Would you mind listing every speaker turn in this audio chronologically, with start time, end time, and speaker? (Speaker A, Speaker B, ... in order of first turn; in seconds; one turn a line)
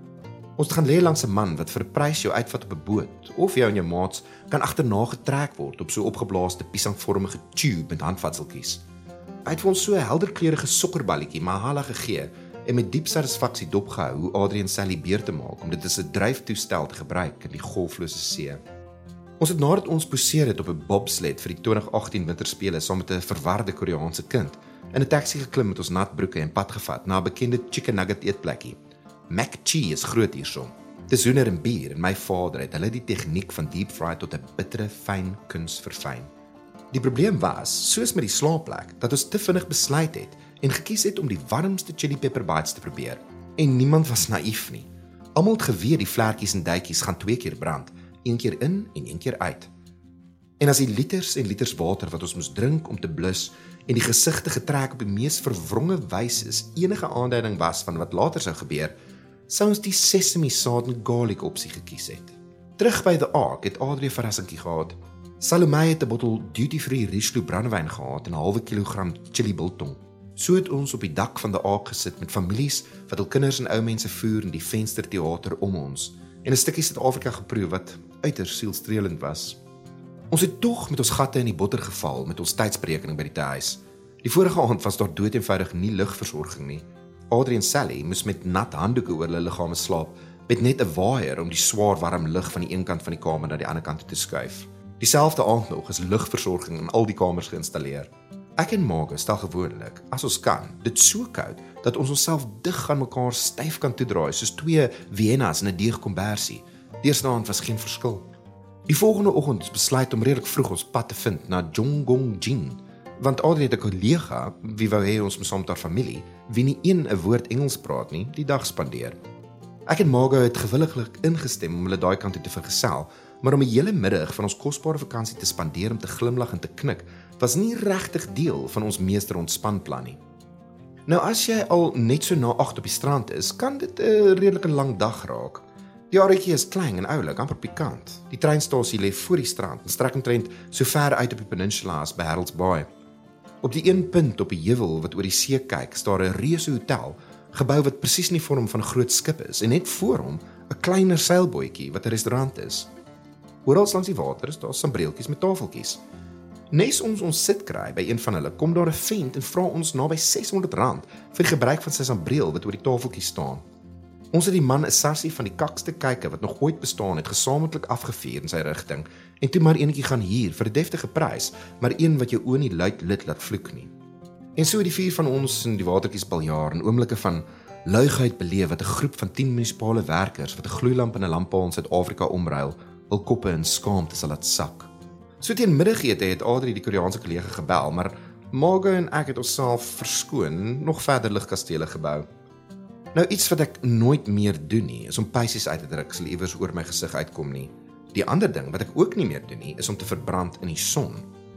Speaker A: 0.6-8.8
Speaker A: 9.4-18.6
Speaker A: 19.4-28.8
Speaker A: 29.3-36.3
Speaker A: 36.9-49.7
Speaker A: 50.6-58.9
Speaker A: 59.5-79.6
Speaker A: 80.3-108.3
Speaker A: 108.9-119.2
Speaker A: 119.9-130.2
Speaker A: 131.1-142.9
Speaker A: 143.6-152.9
Speaker A: 153.7-156.0
Speaker A: 156.7-163.6
Speaker A: 164.3-173.9
Speaker A: 174.6-184.9
Speaker A: 185.4-192.3
Speaker A: 193.1-201.3